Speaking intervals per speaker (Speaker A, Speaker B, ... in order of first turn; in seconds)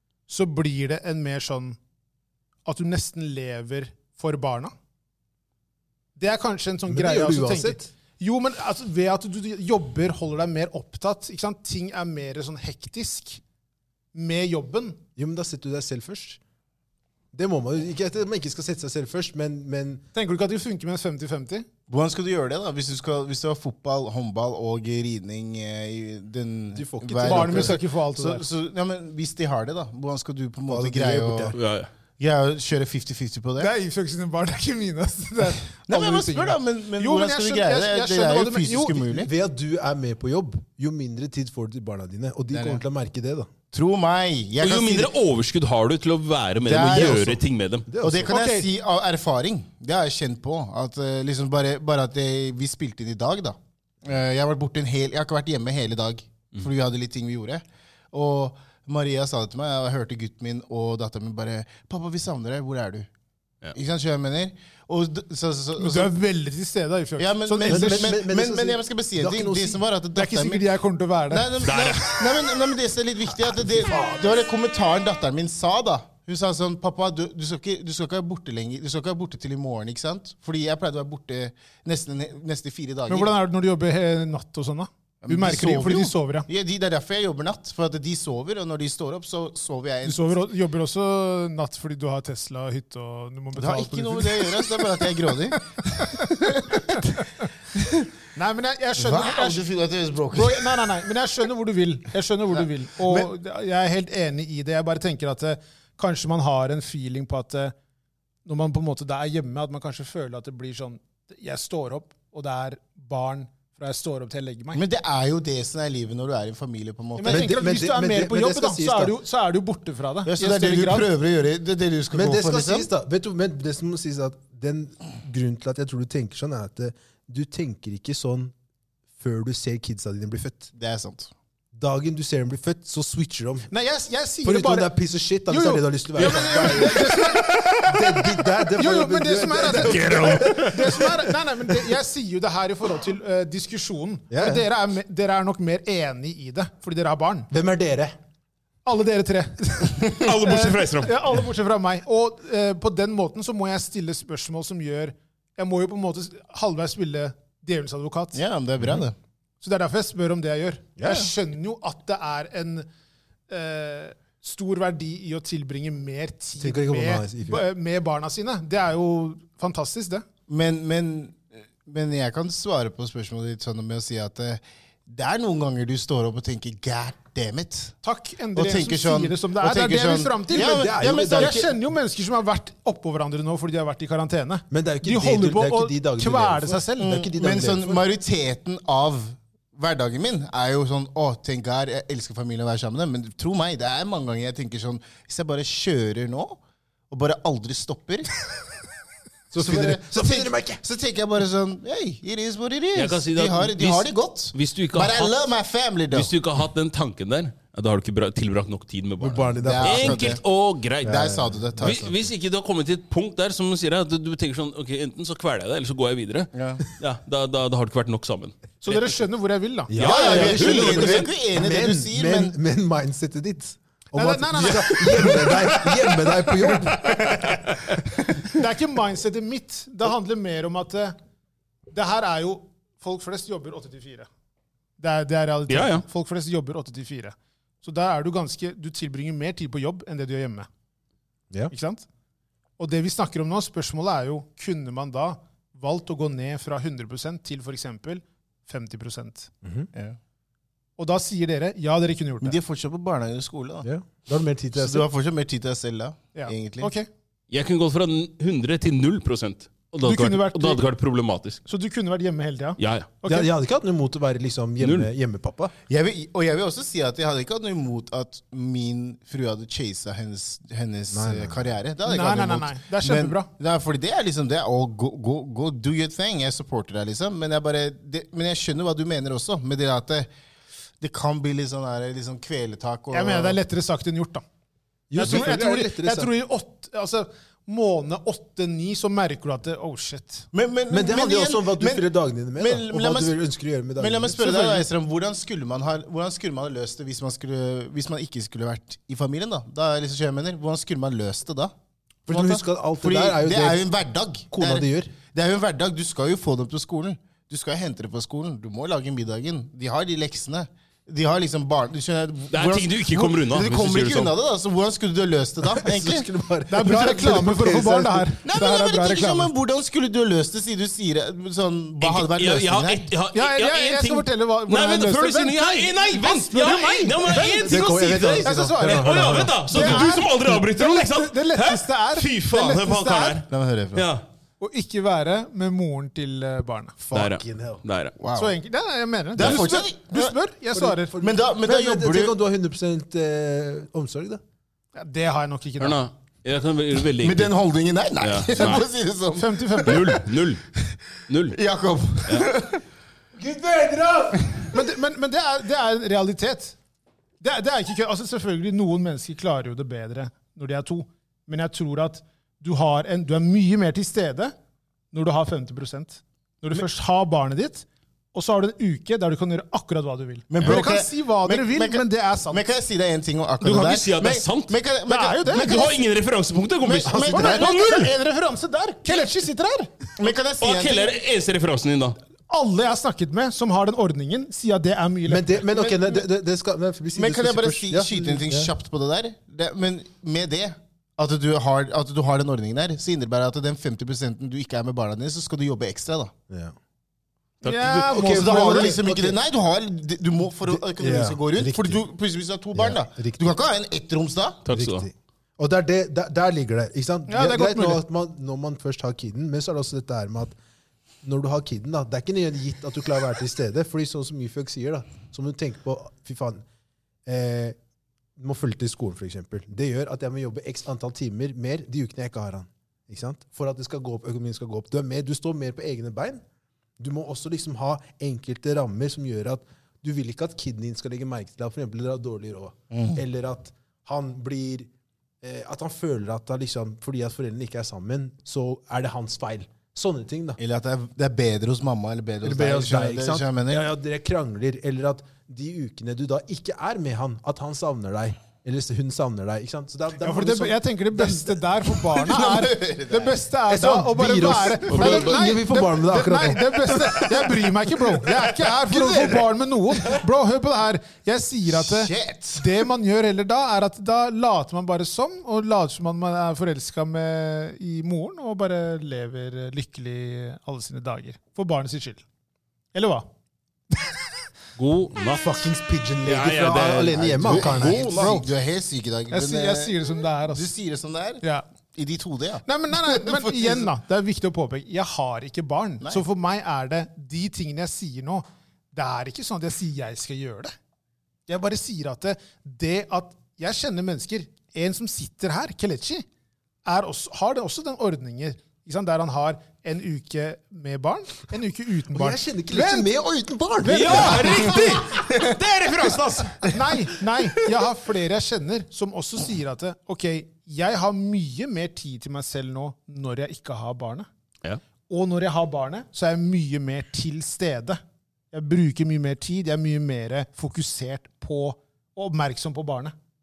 Speaker A: 0.3-1.8, 2.7-4.7, 6.2-13.4, 14.1-15.0, 20.1-21.6, 27.2-28.4, 33.6-39.1, 48.3-48.7, 65.8-68.2, 70.1-71.7, 83.1-86.5, 90.0-94.8, 95.6-97.1, 98.3-99.6, 100.3-107.7, 108.5-114.8, 117.2-121.1, 133.7-134.9, 135.5-147.5, 148.8-158.4, 159.6-162.9, 163.5-170.2, 178.0-187.0, 218.8-221.3, 224.1-225.5, 228.5-231.1, 231.9-234.3, 235.0-240.7, 241.7-242.1, 242.8-249.5, 251.0-252.6, 256.4-257.1, 260.0-260.8, 261.6-263.5, 272.1-273.5, 283.1-284.4, 285.1-290.4, 316.7-319.5, 323.3-327.8, 328.4-333.4, 334.6-337.0, 338.4-341.2, 344.9-346.0, 349.4-350.1, 354.7-356.8, 357.4-364.5, 365.1-372.7, 375.1-375.9, 377.2-379.9, 382.5-385.6, 397.6-399.0, 407.3-408.0, 450.2-472.2, 472.9-473.3, 473.9-474.2, 478.2-478.5, 479.3-480.7, 482.7-490.7, 491.5-496.2, 496.9-503.1, 503.8-505.0, 506.7-514.3, 515.1-518.0, 518.5-523.1
Speaker B: 6.9-7.9, 15.2-16.4, 17.3-20.0, 26.8-27.8, 30.7-31.6, 39.1-43.5, 47.9-48.4, 67.7-69.8, 73.3-74.4, 117.3-119.1, 122.1-128.5, 129.2-130.7, 131.8-133.7, 134.4-137.2, 137.8-141.0, 144.3-144.6, 147.5-148.1, 161.0-161.3, 166.6-167.7, 180.5-181.7, 184.7-188.0, 199.5-200.8, 209.2-210.4, 211.0-212.1, 219.9-227.3, 249.6-249.9, 253.8-255.1, 263.3-265.7, 271.1-271.7, 285.1-286.3, 290.9-294.9, 302.3-303.9, 304.5-305.1, 315.6-318.4, 327.6-330.1, 337.0-337.8, 340.7-344.4, 353.4-354.8, 377.1-377.6, 385.3-388.7, 396.5-396.8, 398.0-399.4, 400.6-402.1, 402.8-403.6, 404.7-410.6, 411.2-416.6, 417.3-417.8, 418.4-426.4, 427.0-434.9, 435.4-440.6, 442.4-451.6, 453.7-457.9, 458.9-459.4, 475.3-478.4, 502.1-505.5
Speaker C: 21.9-31.6, 32.2-33.7, 35.9-39.3, 42.5-42.8, 43.7-45.1, 46.6-47.4, 48.0-63.1, 63.8-66.1, 67.2-70.7, 71.3-83.3, 85.2-90.4, 93.5-97.2, 97.8-98.1, 99.0-100.9, 114.7-117.6, 120.3-122.9, 130.8-131.3, 136.2-137.3, 158.3-159.2, 170.5-177.9, 178.6-181.7, 187.0-198.4, 199.5-206.3, 209.6-210.4, 211.0-212.1, 216.5-216.8, 220.0-222.5, 252.4-253.9, 254.8-256.9, 265.9-280.3, 281.0-283.6, 290.5-292.1, 292.6-293.4, 294.0-301.7, 302.3-316.3, 318.4-323.1, 333.5-334.1, 338.2-338.6, 339.4-340.4, 341.2-342.4, 347.2-350.3, 351.5-352.8, 370.5-376.0, 376.8-377.9, 380.2-381.1, 385.7-386.2, 387.2-396.3, 398.2-404.6, 432.9-433.2, 440.6-443.8, 452.1-453.4, 455.0-455.4, 461.8-462.7, 477.2-481.4, 481.9-483.9
Speaker D: 31.6-31.9, 44.6-47.9, 71.6-72.6, 139.7-140.8, 150.1-151.2, 202.9-205.3, 206.1-211.2, 211.8-219.1, 219.9-221.3, 224.6-228.0, 235.7-236.0, 257.5-261.6, 262.8-263.1, 264.8-265.1, 312.5-314.3, 322.0-334.2, 337.1-338.1, 345.8-347.5, 348.2-348.9, 349.9-350.6, 351.3-351.6, 373.6-374.7, 375.5-378.1, 380.6-382.2, 397.6-398.0, 404.6-405.1, 454.9-455.3, 474.8-475.6, 476.2-478.1, 503.8-506.7